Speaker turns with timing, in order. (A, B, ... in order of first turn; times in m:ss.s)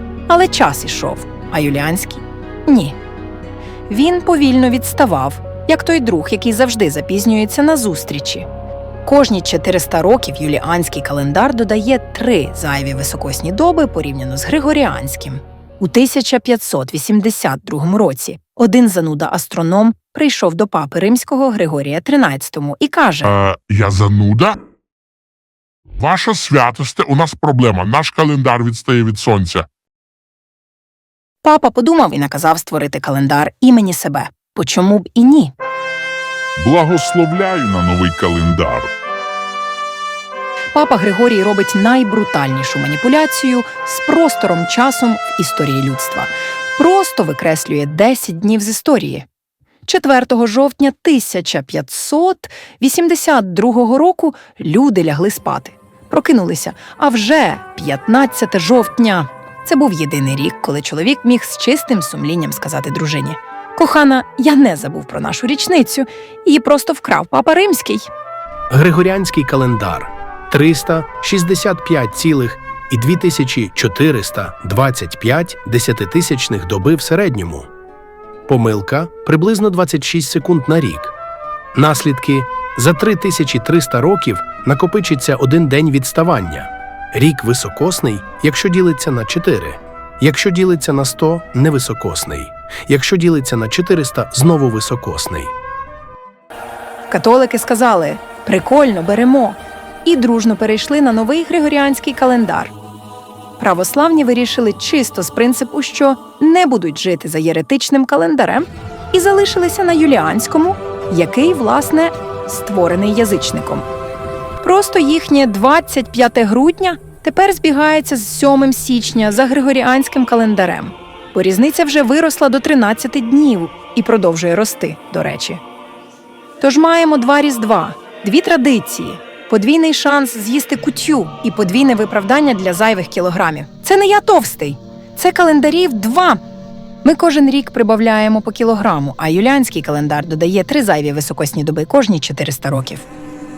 0:00.3-0:03.0 A
0:03.9-0:08.5 A
0:09.0-0:23.3 A
0:23.2-0:24.6 B
0:26.0-0:29.7 B
0:31.4-0:35.5 A
0:36.6-0:38.9 B
0:40.7-0:49.2 A
0:49.9-1:08.1 A
1:08.7-1:17.7 C
1:18.5-1:21.2 C
1:21.7-1:35.5 C
1:37.1-1:42.7 A
1:43.6-1:53.9 A
1:54.6-2:05.6 A
2:06.6-2:16.4 A
2:17.0-2:23.1 A